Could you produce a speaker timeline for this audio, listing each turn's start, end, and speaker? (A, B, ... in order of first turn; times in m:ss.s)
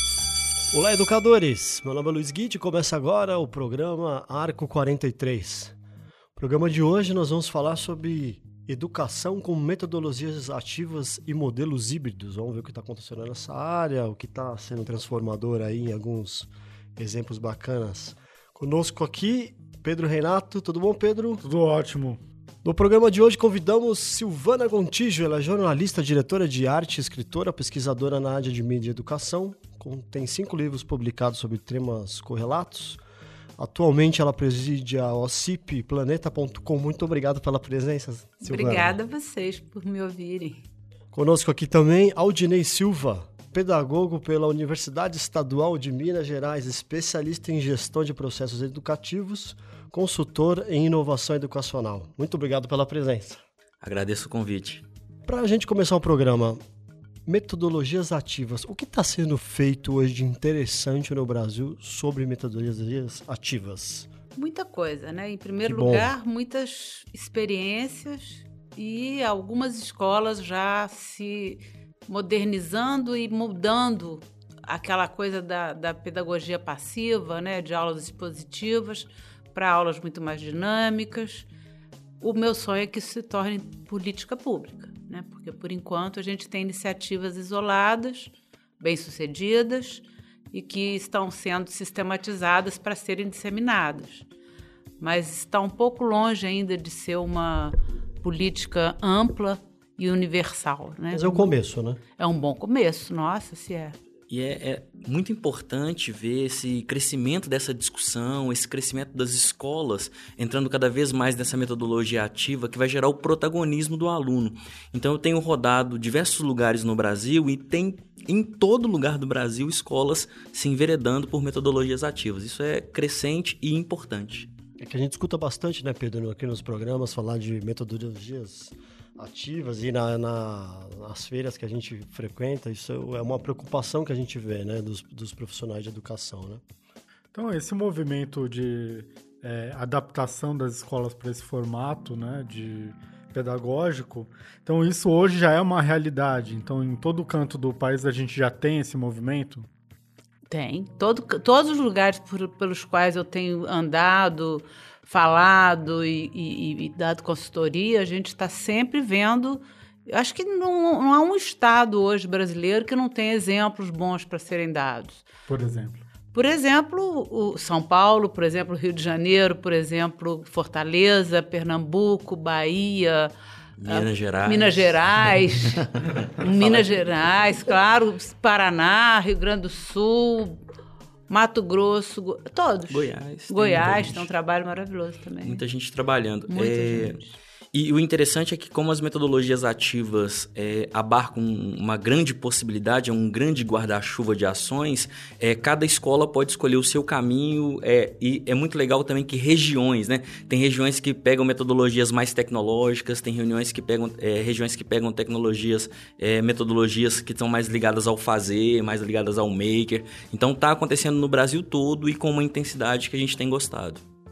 0:00.7-0:05.8 A
0:06.4-0:21.4 A
0:21.4-0:22.2 B
0:22.6-0:33.0 A
0:33.6-0:38.9 A
0:38.4-0:40.6 C
0:41.1-0:53.4 A
0:53.8-0:54.8 D
0:55.3-0:56.6 A
0:57.3-1:04.1 A
1:04.4-1:21.5 C
1:05.6-1:06.1 A
1:22.2-1:34.2 C
1:35.0-1:41.5 C
1:41.1-1:42.0 A
1:42.2-1:44.0 C
1:44.3-2:04.5 D
2:04.8-2:16.6 A
2:17.3-2:29.7 B
2:30.5-2:45.2 C
2:45.5-2:46.0 B
2:46.3-2:53.3 C
2:53.8-2:56.9 D
2:53.9-2:55.8 C
2:56.4-3:00.6 C
3:01.3-3:05.6 C
3:02.9-3:04.3 D
3:05.4-3:07.2 D
3:06.5-3:07.3 C
3:07.7-3:34.0 D